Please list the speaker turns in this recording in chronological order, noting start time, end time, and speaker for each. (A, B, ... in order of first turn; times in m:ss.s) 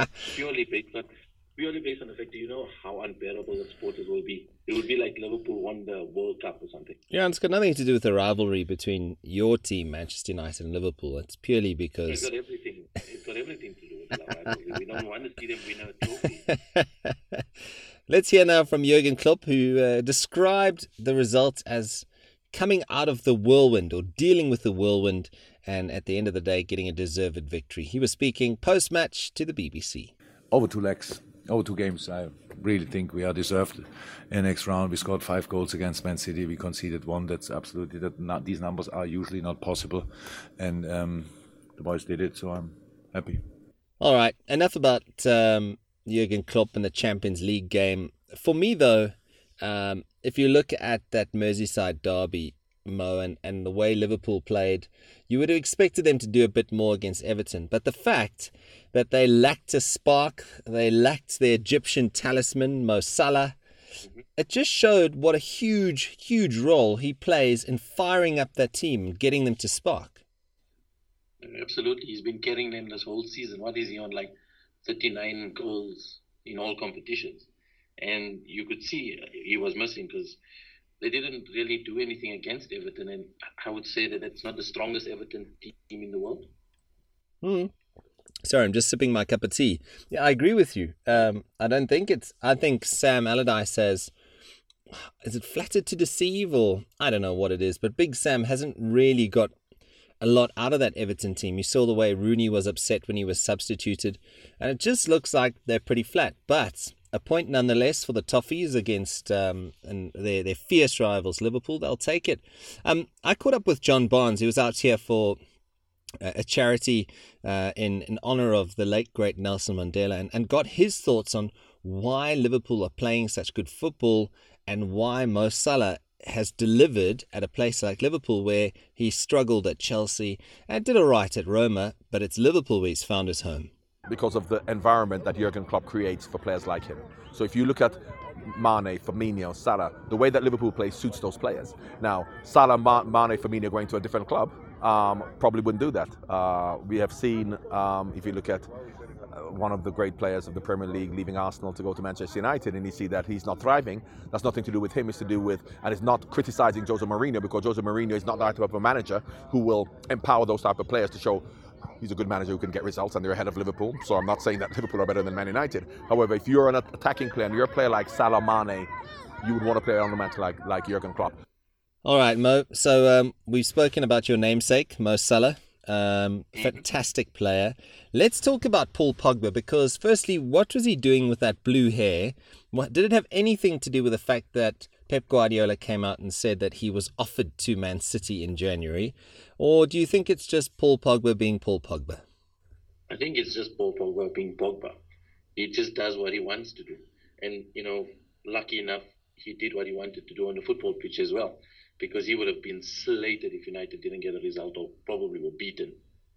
0:00.2-0:07.0 A
0:07.1-0:12.3 B
0:12.1-0:16.6 A
0:16.5-0:17.4 B
0:18.1-0:30.1 B
0:30.5-0:43.4 C
0:44.0-1:03.6 B
1:04.4-1:10.2 B
1:11.4-1:20.4 A
1:21.0-1:26.5 A
1:27.4-1:27.7 B
1:28.4-1:34.1 B
1:35.2-1:39.5 B
1:40.2-1:55.4 B
1:56.2-2:13.7 B
2:14.1-2:28.7 D
2:29.3-2:41.4 D
2:42.0-2:48.9 D
2:49.4-2:51.4 D
2:52.0-3:12.2 B
2:56.5-2:56.8 A
3:13.1-3:15.0 A
3:15.5-3:26.0 A